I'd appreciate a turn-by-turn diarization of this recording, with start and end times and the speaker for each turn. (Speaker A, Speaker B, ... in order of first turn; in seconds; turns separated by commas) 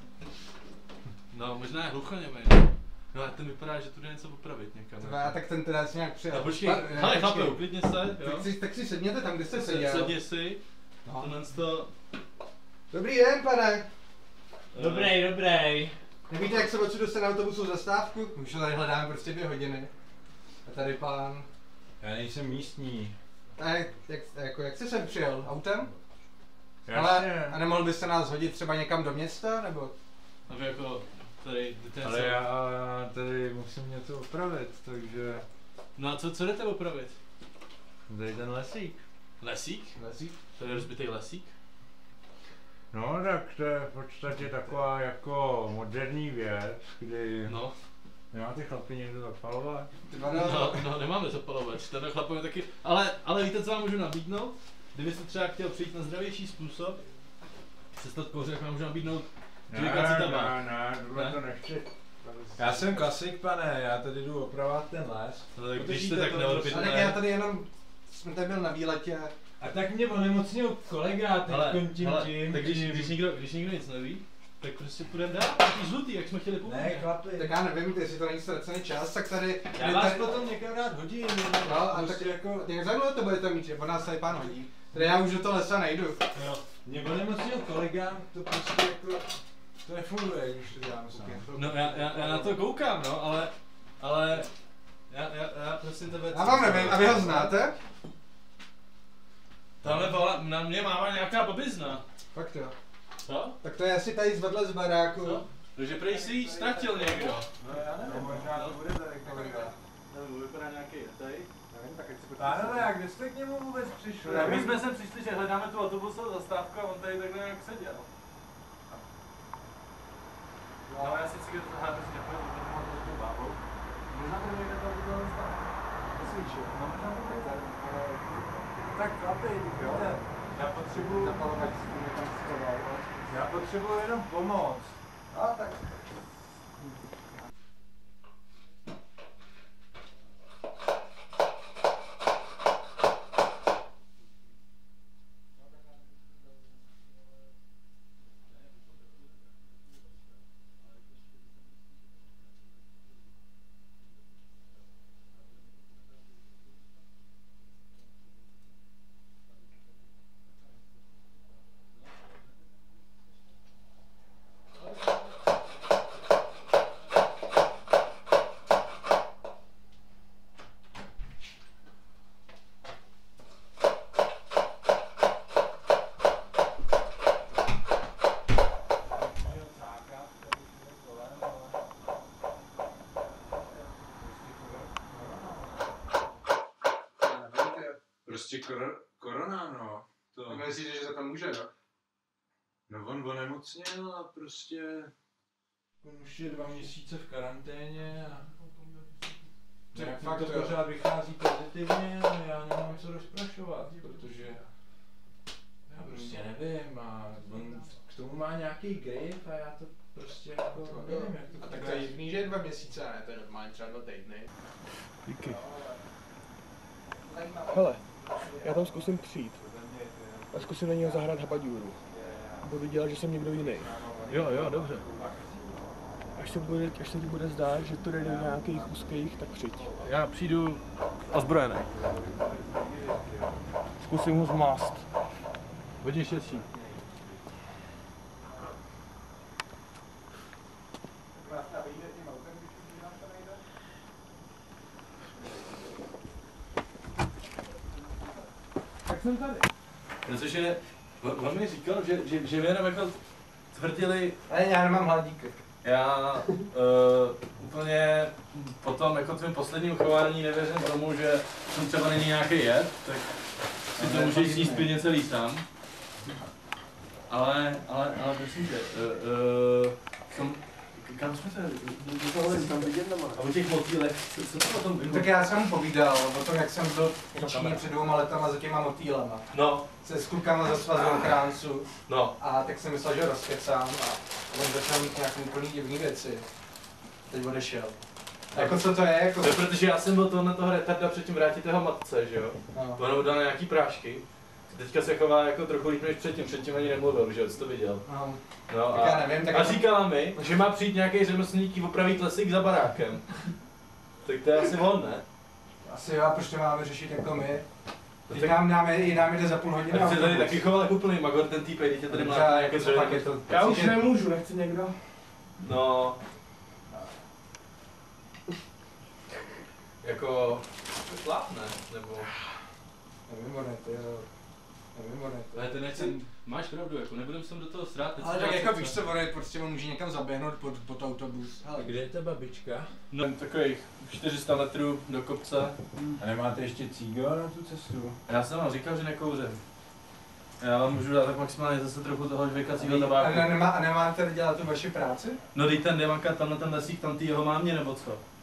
Speaker A: 1.3-5.3, Speaker B: 5.0-7.6, Speaker A: 6.3-8.4, Speaker B: 8.2-10.1, Speaker A: 9.5-10.6, Speaker B: 11.0-11.3, Speaker A: 11.2-11.9, Speaker B: 12.9-13.8, Speaker A: 14.7-15.3, Speaker C: 14.7-15.9, Speaker B: 16.3-19.9, Speaker B: 20.6-21.5, Speaker C: 22.0-23.1, Speaker B: 23.6-25.9, Speaker C: 26.9-27.6, Speaker B: 26.9-29.9, Speaker A: 30.5-32.4, Speaker C: 32.0-35.4, Speaker A: 36.0-37.1, Speaker C: 38.1-39.0, Speaker A: 39.4-40.0, Speaker B: 40.0-40.4, Speaker A: 40.5-41.5, Speaker C: 42.9-47.5, Speaker A: 47.5-47.8, Speaker C: 48.3-49.9, Speaker B: 50.1-50.8, Speaker A: 50.3-57.0, Speaker A: 57.9-61.4, Speaker C: 59.7-61.9, Speaker B: 62.2-63.0, Speaker C: 62.5-67.0, Speaker A: 65.5-67.2, Speaker B: 66.7-69.3, Speaker C: 69.6-73.1, Speaker A: 71.5-77.1, Speaker C: 76.6-77.5, Speaker B: 77.4-80.3, Speaker C: 79.7-82.7, Speaker B: 81.6-86.2, Speaker A: 86.3-86.6, Speaker C: 86.8-92.4, Speaker B: 91.1-92.5, Speaker A: 91.5-94.5, Speaker A: 95.1-97.6, Speaker B: 96.3-97.8, Speaker A: 99.8-102.0, Speaker B: 102.3-102.7, Speaker A: 103.2-103.6, Speaker B: 103.6-105.4, Speaker A: 105.2-108.8, Speaker C: 105.8-109.7, Speaker B: 109.2-109.8, Speaker A: 110.1-111.5, Speaker B: 111.7-112.9, Speaker C: 112.4-114.8, Speaker B: 114.2-114.7, Speaker A: 114.3-118.1, Speaker B: 120.9-121.3, Speaker A: 121.0-123.6, Speaker A: 124.1-125.6, Speaker B: 126.1-128.6, Speaker C: 128.9-131.4, Speaker B: 129.7-130.2, Speaker B: 130.9-133.4, Speaker C: 133.3-135.0, Speaker B: 135.3-136.0, Speaker C: 179.1-181.8, Speaker C: 184.2-185.7, Speaker B: 187.2-188.0, Speaker C: 188.2-190.7, Speaker B: 190.5-191.7, Speaker C: 192.9-195.1, Speaker C: 196.0-198.5, Speaker C: 199.9-204.6, Speaker B: 199.9-200.8, Speaker C: 205.9-212.3, Speaker B: 206.1-206.4, Speaker B: 210.8-214.5, Speaker D: 215.2-215.6, Speaker C: 215.4-216.0, Speaker B: 217.2-218.1, Speaker D: 217.7-219.6, Speaker C: 218.2-222.8, Speaker D: 220.5-222.0, Speaker D: 222.6-223.9, Speaker C: 223.5-226.3, Speaker A: 224.3-225.0, Speaker D: 226.3-229.9, Speaker C: 228.0-229.1, Speaker C: 229.6-230.1, Speaker A: 230.0-231.9, Speaker C: 231.9-233.6, Speaker D: 234.0-235.0, Speaker A: 236.0-236.6, Speaker C: 236.5-237.1, Speaker B: 241.3-243.6, Speaker D: 249.1-249.7, Speaker A: 250.2-253.2, Speaker A: 253.7-254.4, Speaker B: 254.5-255.5, Speaker A: 255.8-263.3, Speaker A: 263.9-265.6, Speaker B: 263.9-264.9, Speaker A: 267.3-275.3, Speaker D: 272.2-273.4, Speaker B: 275.0-286.4, Speaker A: 277.3-277.8, Speaker A: 279.5-280.4, Speaker A: 280.9-281.3, Speaker A: 282.1-282.3, Speaker B: 287.3-287.9, Speaker B: 288.5-289.6, Speaker A: 288.5-298.0, Speaker B: 292.7-293.0, Speaker B: 298.1-299.9, Speaker A: 298.7-303.3, Speaker A: 304.2-305.2, Speaker B: 305.8-307.6, Speaker B: 308.3-310.6, Speaker A: 308.3-308.6, Speaker A: 309.9-313.7, Speaker B: 312.1-314.1, Speaker D: 313.5-315.1, Speaker A: 315.6-316.2, Speaker A: 320.0-322.3, Speaker B: 323.3-324.3, Speaker B: 324.9-326.1, Speaker A: 325.5-329.0, Speaker B: 328.2-331.9, Speaker C: 331.8-332.9, Speaker A: 333.1-335.8, Speaker C: 336.2-338.2, Speaker A: 338.3-339.6, Speaker A: 340.6-343.6, Speaker B: 342.8-345.4, Speaker A: 345.5-348.2